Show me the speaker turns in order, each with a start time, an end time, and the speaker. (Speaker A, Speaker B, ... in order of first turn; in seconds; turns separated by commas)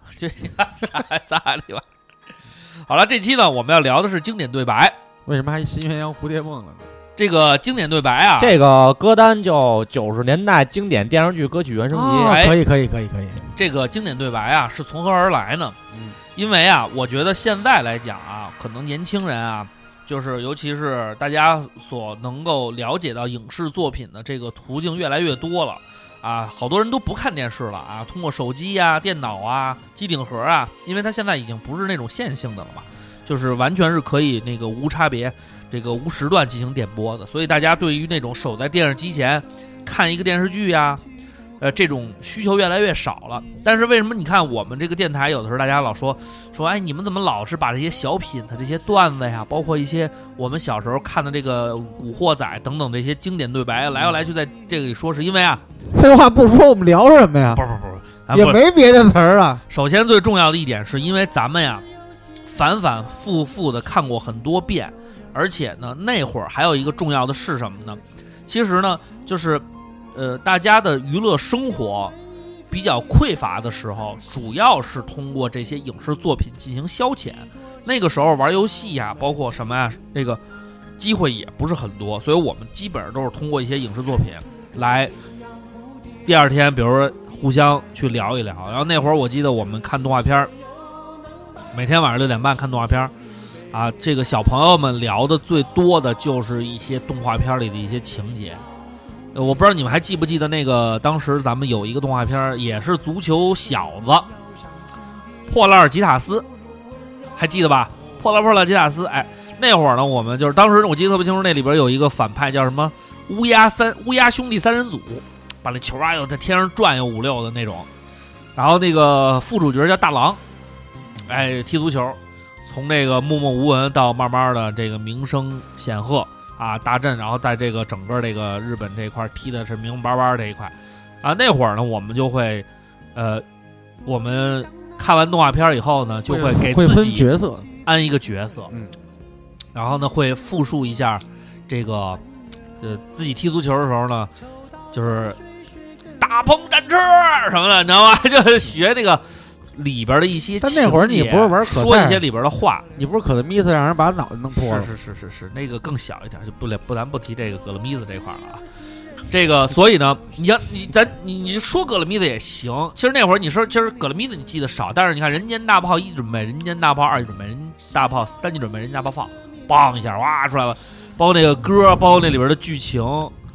Speaker A: 0.2-1.8, Speaker A: 2.8-5.0, Speaker B: 5.2-6.9, Speaker A: 7.2-8.6, Speaker C: 8.4-12.4, Speaker B: 11.9-13.4, Speaker A: 12.3-12.6, Speaker A: 13.6-15.8, Speaker A: 16.4-41.0, Speaker A: 41.6-55.6, Speaker B: 55.9-57.6, Speaker A: 57.5-58.6, Speaker B: 58.3-59.6, Speaker A: 59.7-61.8, Speaker A: 62.5-72.1, Speaker A: 72.7-80.4, Speaker A: 81.0-85.1, Speaker A: 86.2-90.5, Speaker A: 91.7-93.1, Speaker A: 93.7-98.6, Speaker A: 99.3-104.3, Speaker A: 105.5-106.5, Speaker A: 107.3-117.9, Speaker A: 118.5-120.4, Speaker A: 121.2-133.4, Speaker A: 134.1-137.3, Speaker B: 136.3-137.7, Speaker A: 137.8-138.7, Speaker A: 139.7-142.2, Speaker A: 142.8-144.3, Speaker A: 144.9-145.4, Speaker A: 146.2-149.2, Speaker A: 149.7-152.8, Speaker B: 150.6-152.2, Speaker B: 152.9-154.9, Speaker A: 154.5-158.6, Speaker A: 159.3-173.3